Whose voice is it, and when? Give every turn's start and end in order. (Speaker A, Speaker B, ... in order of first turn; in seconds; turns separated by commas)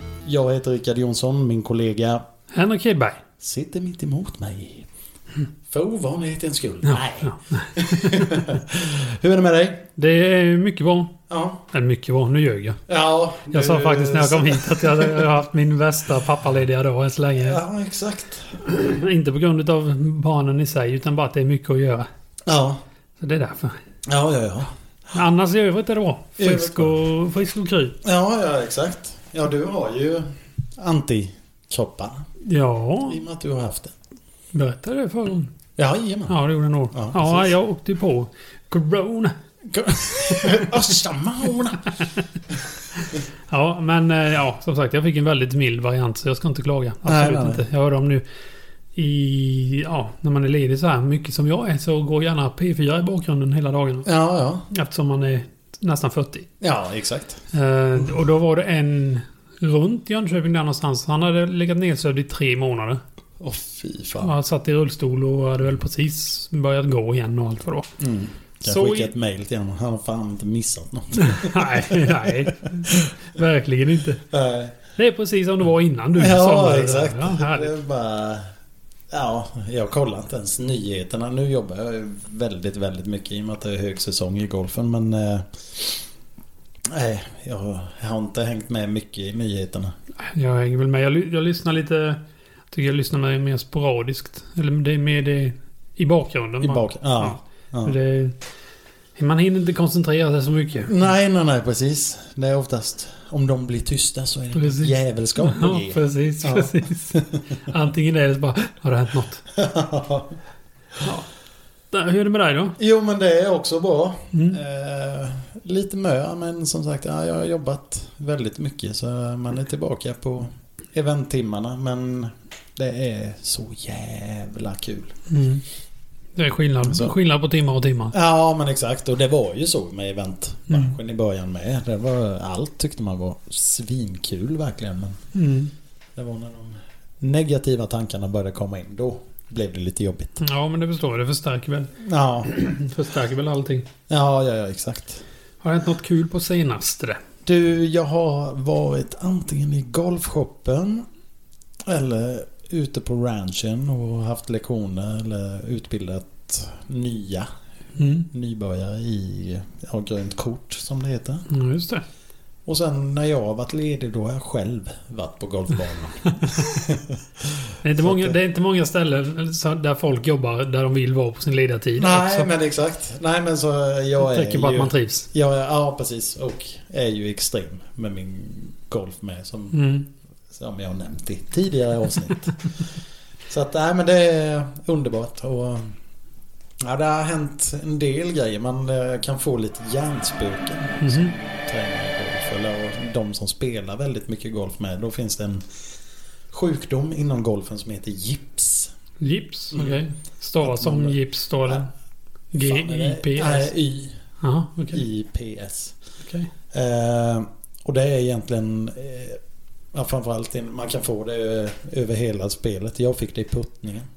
Speaker A: 0.2-2.2, Speaker B: 2.5-3.2, Speaker A: 3.4-4.9, Speaker A: 5.7-9.9, Speaker B: 6.8-8.6, Speaker B: 10.0-11.2, Speaker A: 11.3-11.6, Speaker B: 11.7-12.8, Speaker A: 12.9-15.3, Speaker B: 13.5-17.6, Speaker A: 17.4-18.6, Speaker B: 18.6-22.1, Speaker A: 22.5-22.8, Speaker B: 23.2-23.8, Speaker A: 24.1-24.7, Speaker B: 25.1-28.0, Speaker A: 26.4-27.0, Speaker A: 28.0-30.2, Speaker A: 30.8-32.2, Speaker B: 32.4-33.2, Speaker A: 33.0-33.9, Speaker B: 34.5-35.5, Speaker A: 35.8-36.4, Speaker B: 36.3-39.3, Speaker A: 36.9-37.5, Speaker A: 39.6-41.9, Speaker B: 40.2-40.7, Speaker B: 43.0-48.2, Speaker A: 47.0-47.6, Speaker B: 49.0-54.1, Speaker A: 54.0-54.6, Speaker B: 54.7-56.5, Speaker A: 56.6-57.4, Speaker B: 57.5-63.0, Speaker A: 63.4-64.3, Speaker B: 64.2-67.9, Speaker A: 68.0-73.1, Speaker B: 68.6-69.1, Speaker B: 71.2-74.2, Speaker A: 74.3-74.8, Speaker B: 75.0-77.7, Speaker A: 76.2-78.5, Speaker A: 79.1-86.0, Speaker A: 86.9-89.9, Speaker B: 90.2-92.2, Speaker B: 92.7-98.4, Speaker A: 96.6-98.0, Speaker B: 99.2-101.0, Speaker A: 100.8-107.4, Speaker B: 104.5-109.5, Speaker A: 109.5-110.4, Speaker B: 111.0-111.3, Speaker B: 111.9-112.8, Speaker A: 112.8-125.2, Speaker B: 114.3-114.6, Speaker B: 125.3-125.6, Speaker B: 126.4-128.2, Speaker A: 126.8-127.1, Speaker A: 128.1-135.2, Speaker B: 130.7-130.9, Speaker B: 135.3-135.7, Speaker A: 136.2-140.4, Speaker B: 140.4-143.9, Speaker A: 142.0-142.5, Speaker A: 144.1-145.2, Speaker B: 145.6-147.2, Speaker A: 147.5-151.1, Speaker A: 151.8-157.5, Speaker B: 158.0-158.3, Speaker A: 158.3-161.5, Speaker B: 161.5-162.0, Speaker A: 162.7-168.4, Speaker B: 166.4-166.8, Speaker B: 167.8-172.5, Speaker A: 172.0-179.8, Speaker B: 174.2-175.3, Speaker B: 179.7-180.1, Speaker A: 180.5-182.9, Speaker A: 183.5-186.0, Speaker A: 186.8-195.7, Speaker B: 191.0-191.3, Speaker A: 196.5-198.9, Speaker B: 199.2-201.9, Speaker A: 199.7-200.0, Speaker A: 200.6-201.2, Speaker B: 202.5-203.7, Speaker A: 202.6-204.1, Speaker B: 204.4-205.0, Speaker A: 204.9-206.0, Speaker B: 206.2-206.5, Speaker A: 206.7-209.4, Speaker A: 209.9-214.1